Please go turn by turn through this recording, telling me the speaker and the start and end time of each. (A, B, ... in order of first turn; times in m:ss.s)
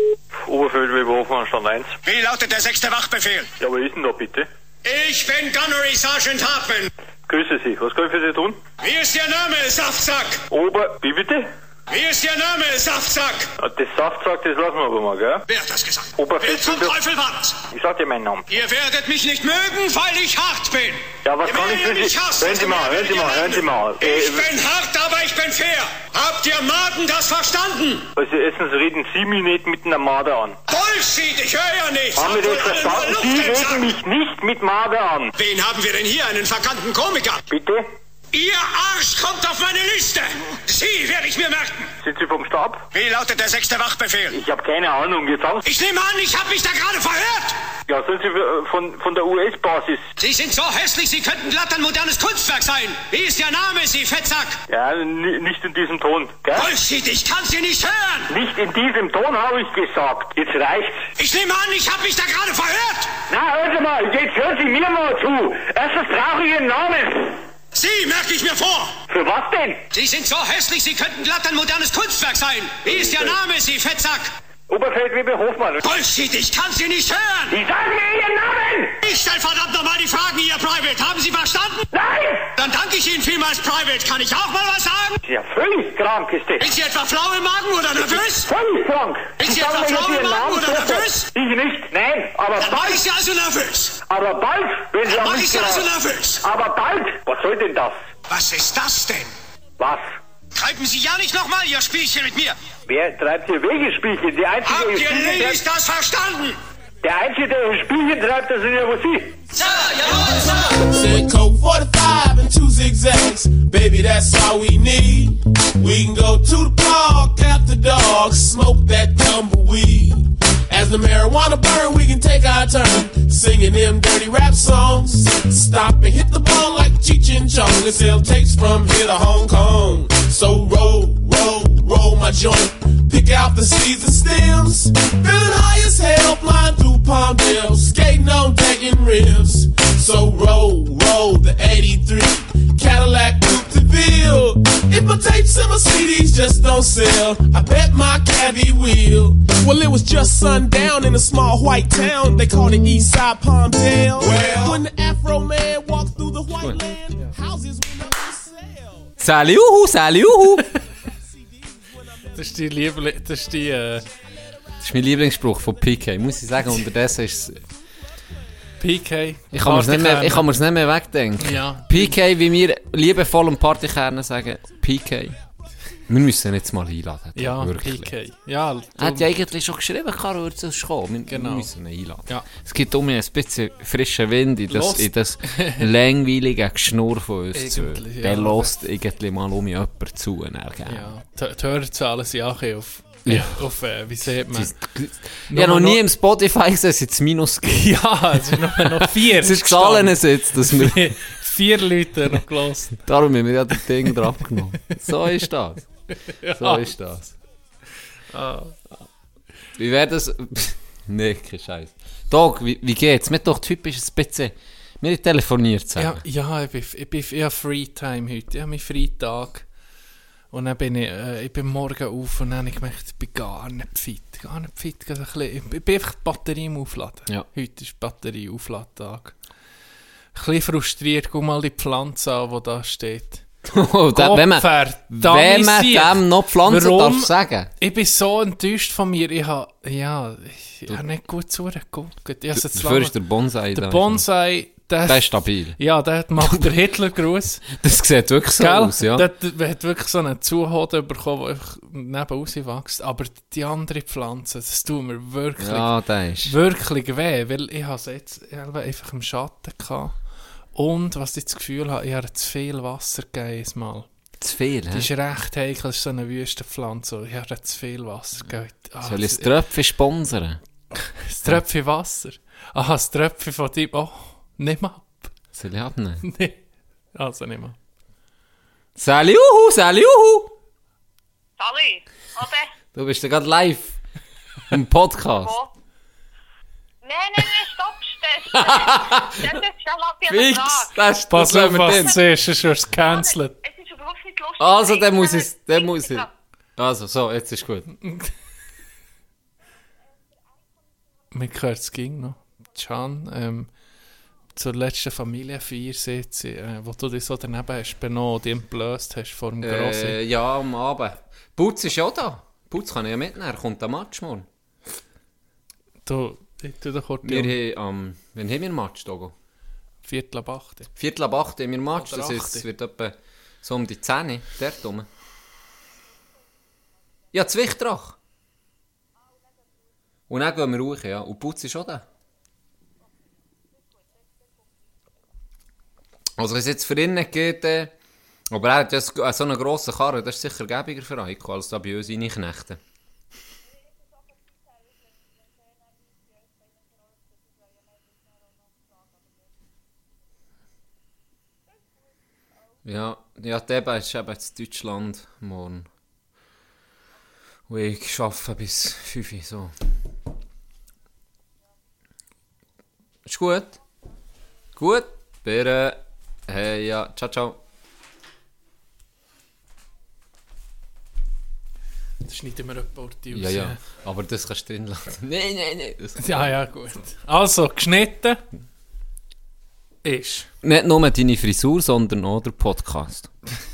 0:00.5-0:02.0 A
0:02.0-0:03.5 B
0:03.6-0:04.5 A
0:04.8-0:06.9 B
0:07.3-0:08.6 A
0:08.8-0:10.4 B
0:10.5-0:11.5 A
0:11.9-0:13.5 B
0:13.6-0:15.4 A
0:15.5-0:17.7 B
0:16.2-0:17.0 A
0:17.7-0:18.4 A
0:18.5-0:28.1 B
0:21.2-0:24.5 A
0:28.2-0:30.6 A
0:30.7-0:34.0 B
0:32.2-0:35.3 A
0:35.4-0:37.4 B
0:37.5-0:37.9 A
0:38.3-0:41.9 B
0:42.0-0:42.8 A
0:42.9-0:44.4 B
0:44.3-0:45.6 A
0:45.6-0:47.6 B
0:47.9-0:50.1 A
0:50.2-0:54.6 B
0:54.7-0:56.7 A
0:56.5-0:58.4 B
0:58.3-1:01.0 A
1:01.2-1:03.1 B
1:03.3-1:07.4 A
1:07.7-1:09.0 B
1:09.1-1:09.8 A
1:09.9-1:14.3 B
1:12.9-1:13.3 A
1:14.7-1:15.8 A
1:15.8-1:17.6 B
1:17.5-1:19.0 A
1:19.0-1:21.9 B
1:21.9-1:22.5 A
1:22.6-1:25.2 B
1:25.2-1:26.6 A
1:26.6-1:28.5 B
1:28.4-1:33.0 A
1:29.4-1:31.3 B
1:32.6-1:34.0 B
1:34.0-1:35.9 A
1:35.0-1:36.5 B
1:36.4-1:38.1 A
1:38.3-1:39.3 B
1:39.8-1:40.2 A
1:40.5-1:42.6 B
1:42.8-1:45.6 A
1:44.6-1:46.6 B
1:47.0-1:49.4 A
1:49.5-1:50.8 B
1:50.4-2:39.1 C
2:39.2-2:40.7 D
2:42.3-2:44.1 E
2:44.8-2:47.6 D
2:48.8-2:50.5 E
2:49.5-2:55.4 D
2:51.4-2:52.2 E
2:56.1-2:58.1 D
2:57.4-2:59.3 E
2:59.0-3:11.1 D
3:01.3-3:01.7 E
3:04.7-3:05.9 E
3:07.5-3:08.7 E
3:10.9-3:14.8 E
3:13.3-3:13.6 D
3:14.4-3:21.2 D
3:15.5-3:16.0 E
3:17.7-3:23.0 E
3:23.0-3:25.8 D
3:26.2-3:26.9 E
3:26.4-3:27.4 D
3:28.3-3:28.8 E
3:29.8-3:36.2 D
3:36.0-3:39.7 E
3:40.5-3:49.4 E
3:50.4-3:53.4 E
3:53.6-3:57.7 D
3:54.1-4:03.2 E
4:02.5-4:04.2 D
4:03.7-4:07.7 E
4:05.1-4:05.8 D
4:06.4-4:06.7 D
4:07.7-4:09.3 D
4:08.6-4:15.9 E
4:15.6-4:16.6 D
4:16.4-4:20.2 E
4:20.8-4:24.1 E
4:24.4-4:25.1 D
4:24.9-4:29.5 E
4:29.0-4:30.6 D
4:31.0-4:35.3 E
4:35.6-4:36.2 D
4:36.2-4:36.6 E
4:37.2-4:37.8 E
4:39.0-4:40.6 D
4:41.6-4:42.7 F
4:42.9-4:44.0 D
4:44.7-4:45.6 D
4:45.4-4:45.7 F
4:47.0-4:51.0 F
4:48.5-4:49.6 D
4:50.3-4:52.2 D
4:51.3-4:53.6 E
4:53.0-4:56.3 F
4:54.6-4:57.9 D
5:01.3-5:03.7 E
5:04.5-5:10.2 E
5:09.6-5:14.5 D
5:16.1-5:17.6 E
5:17.2-5:19.3 D
5:20.0-5:20.9 E
5:21.0-5:25.1 D
5:22.0-5:22.6 E
5:27.3-5:28.2 D
5:30.3-5:32.1 D
5:36.4-5:38.0 D
5:38.5-5:42.8 D
5:52.8-5:55.9 D
5:57.7-5:59.8 D
6:03.2-6:03.8 D
6:04.8-6:07.6 D
6:12.2-6:13.8 E
6:13.3-6:16.5 D
6:16.2-6:18.4 E
6:20.0-6:20.5 E
6:20.6-6:23.3 D